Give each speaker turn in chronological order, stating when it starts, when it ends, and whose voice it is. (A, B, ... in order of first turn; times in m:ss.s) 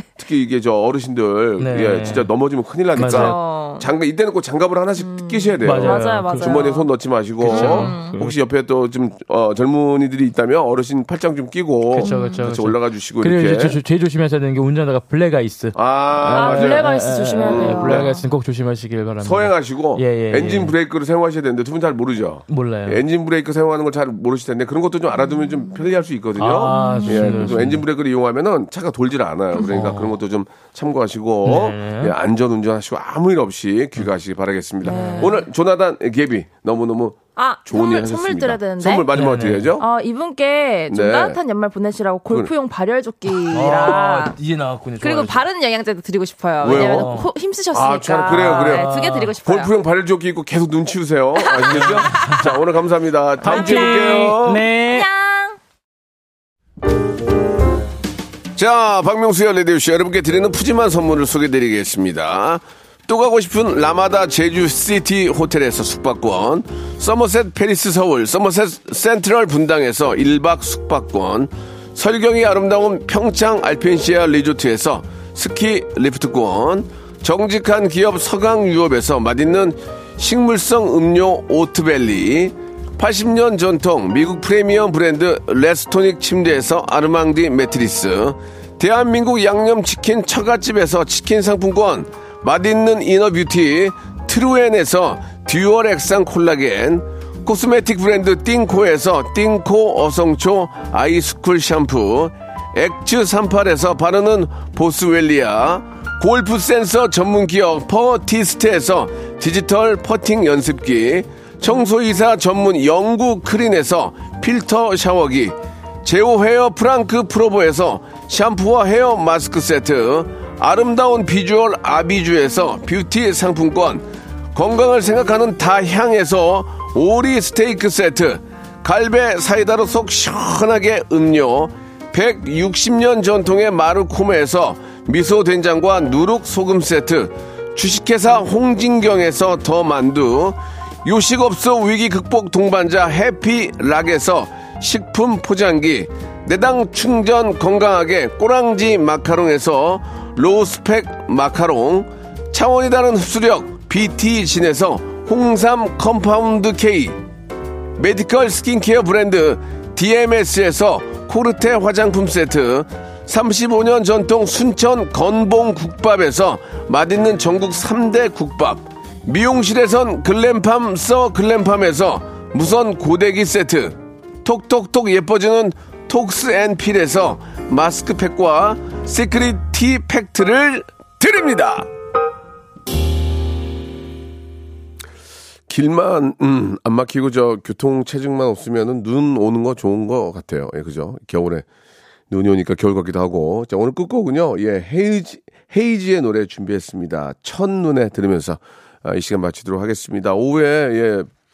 0:00.2-0:13.8 A
0:01.6-0:02.3 B
0:03.0-0:03.4 B
0:03.0-0:03.9 C
0:05.0-0:06.9 C
0:05.6-0:06.6 B
0:07.4-0:08.4 B
0:07.5-0:08.1 C
0:11.9-0:20.7 B
0:12.0-0:12.4 C
0:15.7-0:16.8 A
0:16.3-0:18.2 C
0:17.4-0:18.1 A
0:19.2-0:39.8 A
0:22.5-0:23.0 B
0:25.2-0:25.8 C
0:26.4-0:27.8 B
0:26.6-0:27.6 C
0:29.5-0:29.9 C
0:29.6-0:30.2 B
0:31.4-0:32.1 B
0:34.8-0:35.4 B
0:34.8-0:35.4 C
0:37.4-0:39.1 C
0:39.1-0:39.7 B
0:39.8-0:44.3 C
0:40.9-0:41.4 A
0:43.5-0:45.4 B
0:45.0-0:49.7 C
0:46.6-0:47.1 A
0:46.6-0:47.3 B
0:47.7-0:48.9 A
0:48.3-0:49.3 B
0:49.4-0:54.6 A
0:51.4-0:52.4 C
0:51.7-0:52.5 B
0:53.4-0:55.1 B
0:53.4-0:54.2 C
0:54.8-0:55.6 C
0:58.5-2:37.2 A
2:38.0-3:01.9 A
3:05.7-3:11.6 A
3:12.3-3:21.3 A